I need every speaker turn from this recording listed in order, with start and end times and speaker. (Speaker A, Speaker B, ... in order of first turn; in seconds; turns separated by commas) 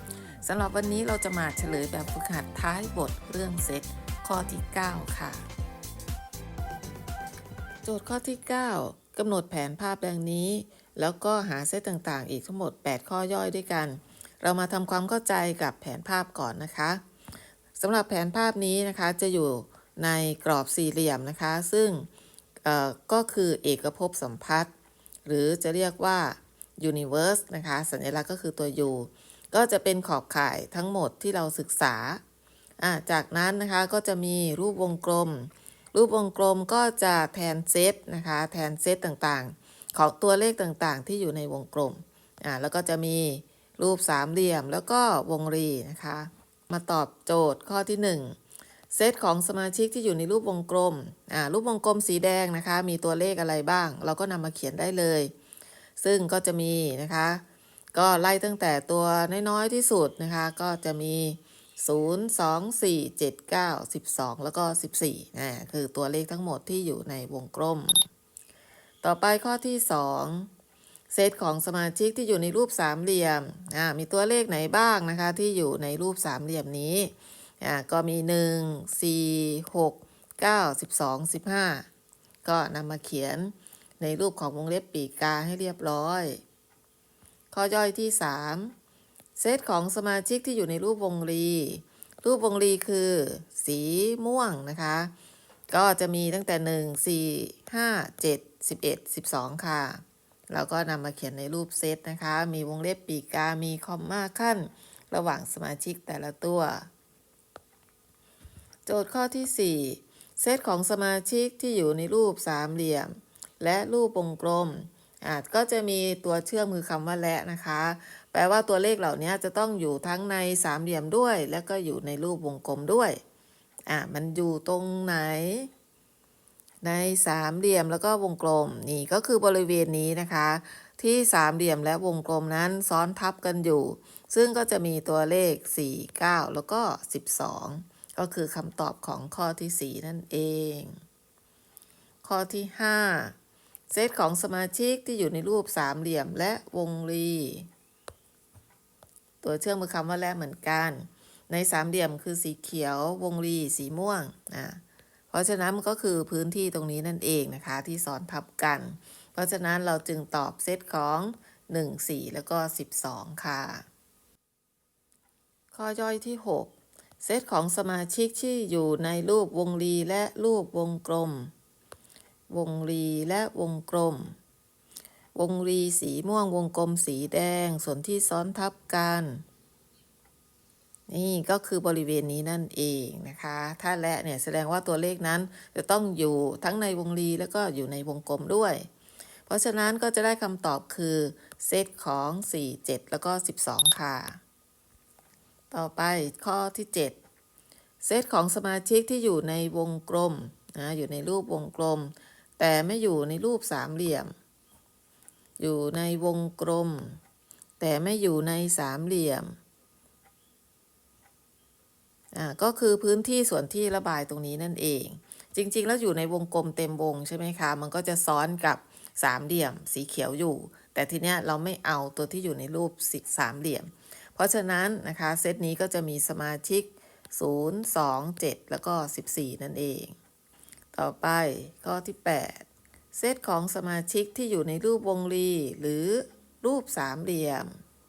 Speaker A: 0.4-5.5, Speaker A: 7.8-17.0, Speaker A: 17.8-22.1, Speaker A: 22.6-24.7, Speaker A: 25.2-32.2, Speaker A: 32.8-48.4, Speaker A: 48.9-55.3, Speaker A: 56.0-57.4, Speaker A: 57.9-68.0, Speaker A: 69.0-70.5, Speaker A: 71.1-81.8, Speaker A: 82.4-86.4, Speaker A: 87.5-88.7, Speaker A: 89.4-95.1, Speaker A: 95.7-106.9, Speaker A: 108.8-123.2, Speaker A: 123.9-125.7, Speaker A: 126.8-140.9, Speaker A: 142.2-143.3, Speaker A: 143.9-147.7, Speaker A: 149.4-163.8, Speaker A: 165.7-171.5, Speaker A: 172.5-174.3, Speaker A: 175.3-179.4, Speaker A: 181.1-188.9, Speaker A: 189.5-194.4, Speaker A: 195.7-197.2, Speaker A: 198.0-204.3, Speaker A: 205.6-207.2, Speaker A: 207.8-209.6, Speaker A: 212.3-230.2, Speaker A: 230.9-237.8